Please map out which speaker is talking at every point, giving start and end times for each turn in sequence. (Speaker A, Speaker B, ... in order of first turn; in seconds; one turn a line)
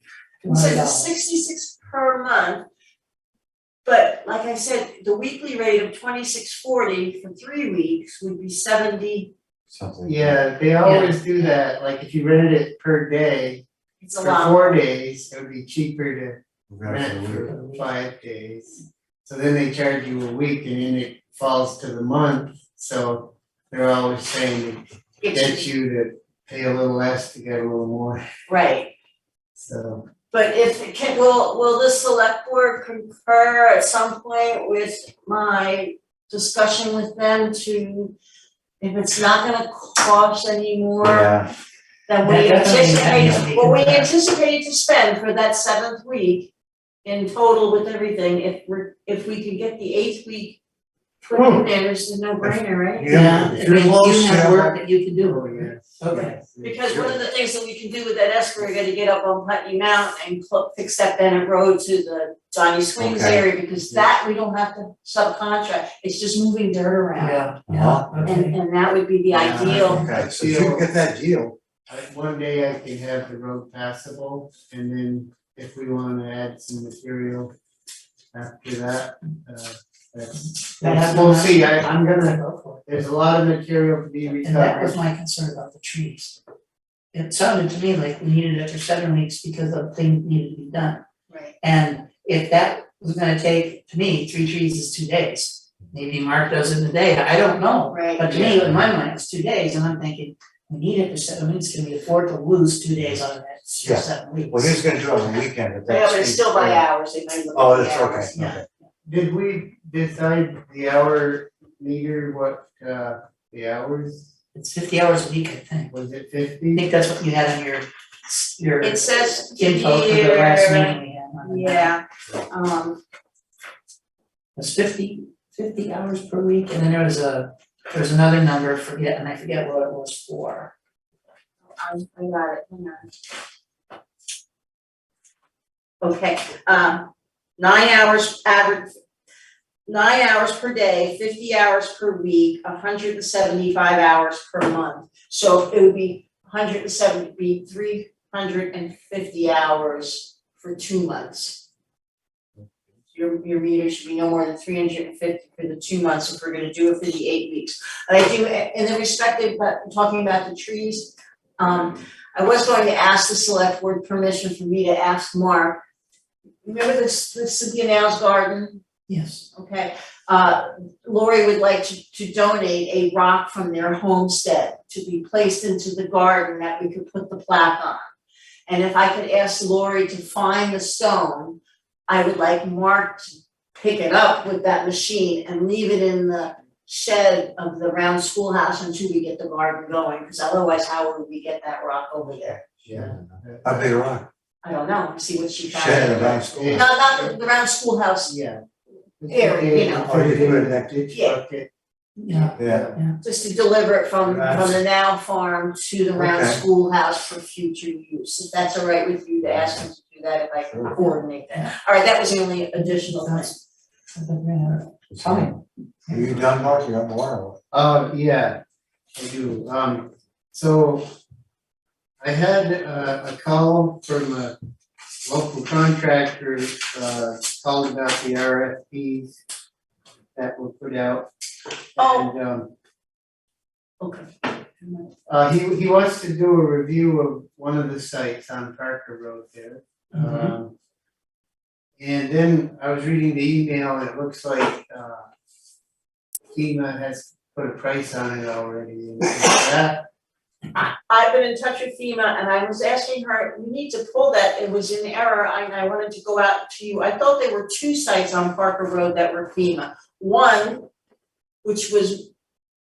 Speaker A: 0.4-1.2
Speaker B: 0.5-2.6
Speaker B: 3.9-9.3
Speaker C: 9.7-10.4
Speaker D: 10.0-13.6
Speaker A: 10.8-11.5
Speaker B: 14.0-14.8
Speaker D: 14.2-28.2
Speaker C: 16.7-17.5
Speaker A: 17.5-17.9
Speaker B: 25.2-25.7
Speaker B: 28.5-28.9
Speaker D: 29.6-30.1
Speaker B: 30.3-38.1
Speaker B: 38.8-41.3
Speaker C: 41.0-41.5
Speaker B: 42.1-46.5
Speaker A: 42.2-44.1
Speaker C: 43.1-43.5
Speaker B: 47.0-50.6
Speaker B: 51.2-53.7
Speaker C: 51.3-51.7
Speaker C: 52.4-54.7
Speaker A: 53.1-56.4
Speaker D: 53.3-57.2
Speaker B: 56.1-67.5
Speaker C: 63.0-63.4
Speaker A: 67.2-68.6
Speaker C: 67.7-68.2
Speaker B: 68.2-70.1
Speaker D: 69.3-70.9
Speaker C: 69.6-71.6
Speaker D: 71.9-77.5
Speaker D: 78.3-85.0
Speaker A: 80.4-82.8
Speaker A: 84.4-86.4
Speaker A: 87.1-91.0
Speaker B: 91.3-91.5
Speaker A: 91.6-104.8
Speaker B: 97.9-98.3
Speaker C: 98.3-98.8
Speaker C: 103.8-106.8
Speaker B: 105.2-108.3
Speaker C: 107.5-108.7
Speaker A: 108.3-108.6
Speaker D: 109.1-114.3
Speaker A: 114.5-115.9
Speaker D: 115.9-116.9
Speaker A: 116.7-121.9
Speaker B: 118.8-123.0
Speaker A: 124.6-130.7
Speaker B: 131.6-133.1
Speaker B: 136.0-138.9
Speaker B: 139.9-151.6
Speaker B: 153.1-165.8
Speaker B: 166.6-168.8
Speaker A: 169.1-169.4
Speaker B: 169.5-178.1
Speaker B: 178.7-192.6
Speaker D: 192.8-193.9
Speaker C: 192.9-194.3
Speaker B: 194.6-198.3
Speaker C: 195.7-196.9
Speaker D: 196.3-197.4
Speaker D: 198.3-198.6
Speaker D: 199.2-201.7
Speaker B: 199.3-200.1
Speaker C: 199.9-200.9
Speaker B: 201.1-201.4
Speaker A: 202.2-203.2
Speaker D: 202.5-203.0
Speaker C: 202.6-202.9
Speaker B: 203.2-213.6
Speaker C: 204.2-204.8
Speaker C: 206.2-206.6
Speaker C: 209.4-209.8
Speaker C: 210.7-211.0
Speaker A: 212.8-213.5
Speaker A: 214.1-216.4
Speaker C: 215.1-217.6
Speaker D: 217.7-218.6
Speaker D: 219.2-221.1
Speaker D: 222.2-224.6
Speaker D: 225.3-229.4
Speaker D: 230.4-231.3
Speaker D: 232.0-232.7
Speaker B: 232.0-232.3
Speaker B: 234.0-235.0
Speaker D: 235.3-240.7
Speaker A: 240.1-240.5
Speaker D: 242.0-245.2
Speaker D: 246.5-250.1
Speaker B: 250.7-260.9
Speaker B: 261.6-262.3